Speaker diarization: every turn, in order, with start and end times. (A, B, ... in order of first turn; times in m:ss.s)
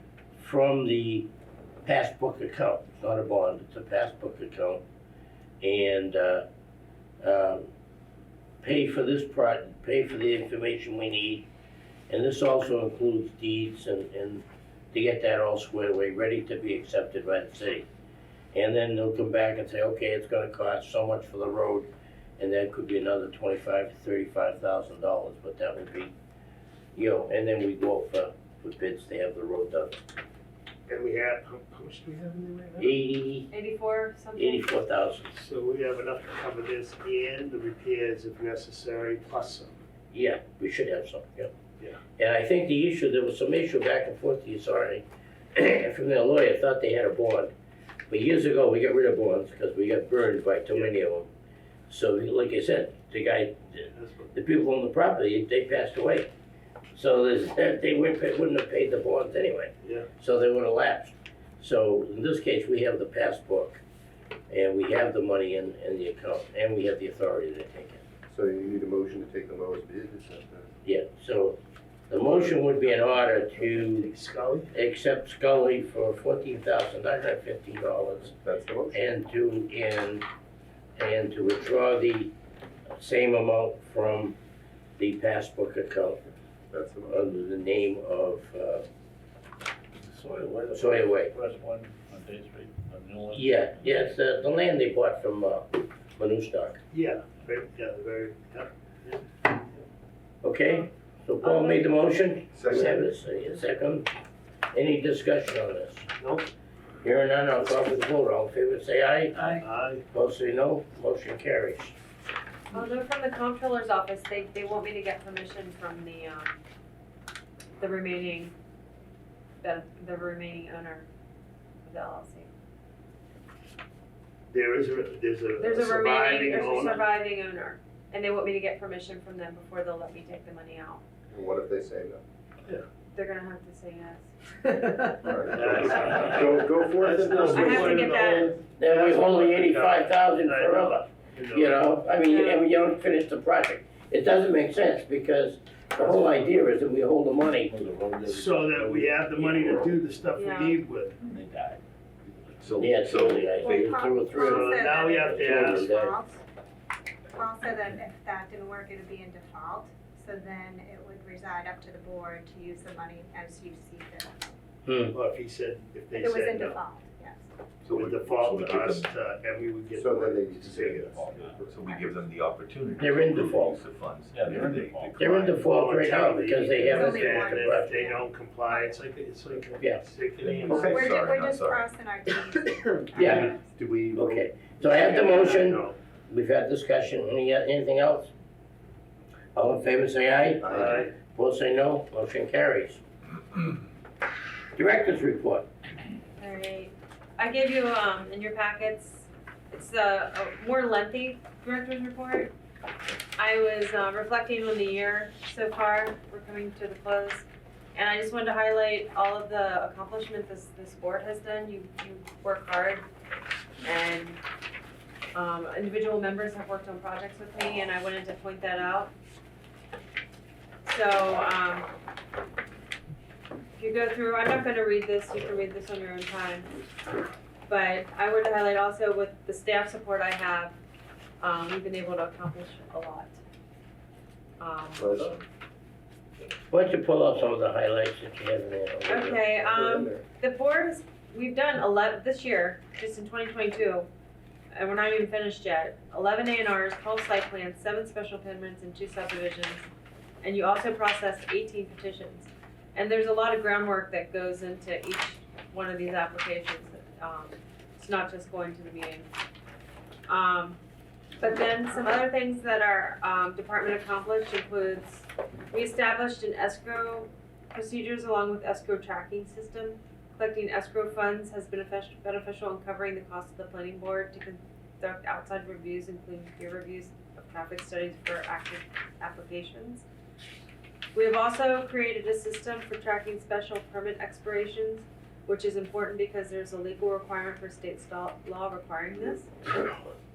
0:00.4-0:01.3 A
0:01.8-0:04.8 A
0:05.6-0:06.4 A
0:07.2-0:07.7 A
0:08.6-0:11.5 A
0:12.1-0:17.9 A
0:18.5-0:26.1 A
0:27.0-0:30.0 A
0:30.9-0:32.9 B
0:32.8-0:33.5 A
0:33.5-0:34.7 C
0:34.4-0:35.3 A
0:35.3-0:39.7 B
0:40.1-0:41.5 A
0:42.2-0:47.5 A
0:48.1-0:51.3 A
0:51.9-0:56.3 A
0:54.0-0:54.3 B
0:56.9-1:03.8 A
0:59.8-1:00.1 B
1:04.5-1:08.0 A
1:08.3-1:10.7 D
1:10.8-1:11.6 A
1:12.1-1:14.1 A
1:13.6-1:14.7 B
1:14.7-1:18.4 A
1:18.4-1:19.0 D
1:18.9-1:20.2 A
1:21.0-1:22.3 A
1:23.0-1:24.4 A
1:25.0-1:26.2 A
1:26.7-1:27.3 D
1:27.1-1:28.8 A
1:30.0-1:34.1 E
1:30.7-1:31.3 A
1:33.3-1:36.8 A
1:36.9-1:39.2 B
1:40.4-1:44.1 A
1:41.4-1:41.9 C
1:42.6-1:43.0 D
1:44.7-1:46.1 A
1:46.2-1:46.5 B
1:47.0-1:49.4 A
1:49.4-1:49.6 C
1:49.6-1:50.0 B
1:50.1-1:52.0 A
1:52.7-1:56.6 C
1:57.8-1:58.6 C
1:59.6-2:01.1 C
2:01.8-2:02.5 C
2:04.5-2:07.0 B
2:05.6-2:11.0 C
2:11.3-2:12.2 D
2:13.1-2:16.7 C
2:15.2-2:18.4 D
2:15.5-2:16.4 B
2:17.0-2:21.8 B
2:17.2-2:18.6 C
2:18.6-2:27.8 A
2:22.2-2:22.7 C
2:26.2-2:26.7 E
2:27.7-2:30.0 E
2:28.3-2:31.2 B
2:30.4-2:30.8 C
2:31.2-2:33.3 E
2:32.6-2:33.4 F
2:32.8-2:36.2 A
2:33.6-2:36.4 G
2:34.6-2:35.8 B
2:37.3-2:44.4 G
2:44.9-2:45.2 A
2:45.1-2:46.8 B
2:46.1-2:47.5 G
2:47.9-2:49.1 F
2:47.9-2:51.0 B
2:50.0-2:51.8 D
2:50.4-2:51.7 E
2:51.7-2:55.8 F
2:51.9-2:52.2 G
2:53.0-2:53.8 A
2:54.3-2:55.2 E
2:55.2-2:57.9 A
2:55.7-3:01.0 B
2:56.5-2:59.0 G
2:56.7-2:57.2 E
3:00.4-3:01.9 F
3:00.7-3:03.7 G
3:03.2-3:03.5 A
3:03.2-3:05.1 D
3:04.2-3:08.3 A
3:05.0-3:05.4 G
3:05.1-3:06.0 B
3:09.6-3:13.0 A
3:10.6-3:11.1 D
3:10.8-3:11.1 B
3:14.8-3:15.7 A
3:16.4-3:22.5 C
3:23.4-3:33.0 C
3:33.8-3:34.4 C
3:35.3-3:39.1 C
3:40.9-3:41.9 C
3:43.8-3:46.7 C
3:47.7-3:50.8 C
3:51.4-3:53.4 C
3:54.6-3:55.4 C
3:55.0-3:55.4 D
3:56.7-3:59.4 A
3:59.1-4:04.1 C
3:59.6-4:00.2 D
4:04.7-4:09.9 C
4:10.4-4:19.3 C
4:20.3-4:20.8 C
4:21.4-4:40.1 C
4:41.1-4:49.5 C